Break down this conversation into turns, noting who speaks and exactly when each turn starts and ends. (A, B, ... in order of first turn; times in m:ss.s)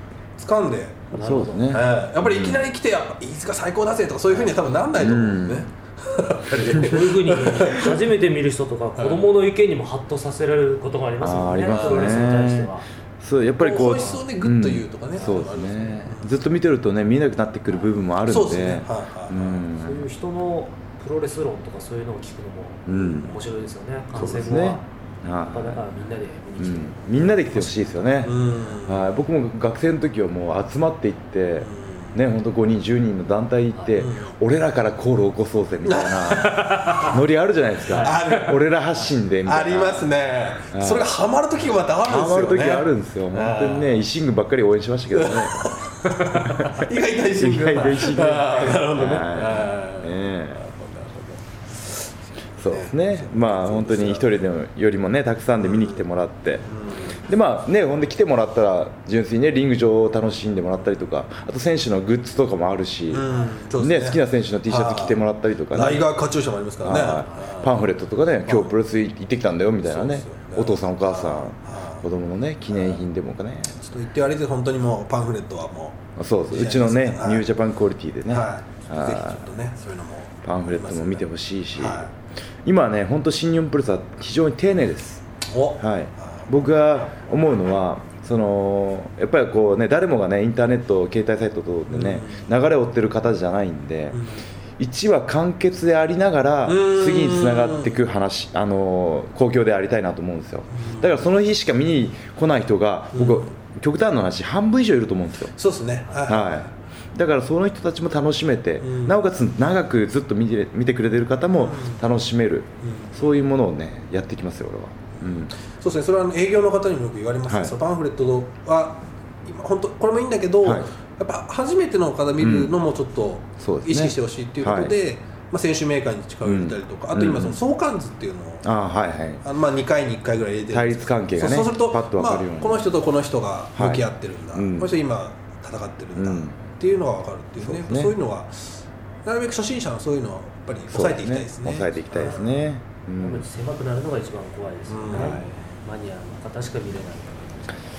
0:00.4-0:01.1 A
0:01.1-0:01.7 B
0:01.2-0:02.6 C
0:01.7-0:08.0 A
0:05.0-0:05.7 C
0:06.6-0:12.8 B
0:06.6-0:07.0 C
0:11.2-0:20.0 C
0:11.6-0:12.3 A
0:13.6-0:16.4 A
0:18.2-0:19.6 A
0:19.8-0:24.8 B
0:22.9-0:23.4 C
0:24.1-0:25.8 C
0:25.4-0:28.0 B
0:26.6-0:40.1 C
0:28.2-0:29.1 A
0:31.6-0:32.2 A
0:33.7-0:34.0 B
0:34.0-0:34.3 A
0:35.8-0:37.2 A
0:36.4-0:37.2 B
0:37.9-0:38.5 B
0:37.9-0:38.7 A
0:39.4-0:44.0 A
0:40.7-0:41.1 C
0:42.0-0:50.6 C
0:45.1-0:54.4 A
0:46.2-0:46.5 B
0:52.6-1:06.0 C
0:55.6-0:56.0 A
0:56.6-0:57.3 A
1:03.1-1:05.2 A
1:05.7-1:07.8 A
1:06.8-1:13.8 C
1:08.4-1:08.8 A
1:09.8-1:12.0 A
1:12.7-1:13.0 A
1:13.8-1:17.5 A
1:16.2-1:19.4 C
1:18.3-1:22.1 A
1:20.4-1:22.1 C
1:22.6-1:25.2 C
1:25.5-1:26.5 A
1:25.8-1:34.2 C
1:31.9-1:32.5 A
1:34.1-1:34.4 A
1:34.8-1:45.5 C
1:36.6-1:37.9 A
1:40.7-1:41.2 A
1:43.1-1:43.5 A
1:45.6-1:46.7 A
1:46.2-1:55.5 C
1:48.8-1:49.2 A
1:51.5-1:52.0 A
1:52.8-1:53.1 A
1:55.2-2:08.7 A
1:57.5-1:57.7 C
2:02.4-2:02.7 C
2:03.6-2:04.9 C
2:06.4-2:07.6 C
2:08.6-2:09.4 C
2:09.4-2:22.6 A
2:10.7-2:12.9 C
2:13.8-2:14.9 C
2:16.2-2:16.6 C
2:17.6-2:18.1 C
2:20.9-2:23.4 C
2:23.2-2:27.7 B
2:24.9-2:25.7 A
2:25.1-2:25.5 C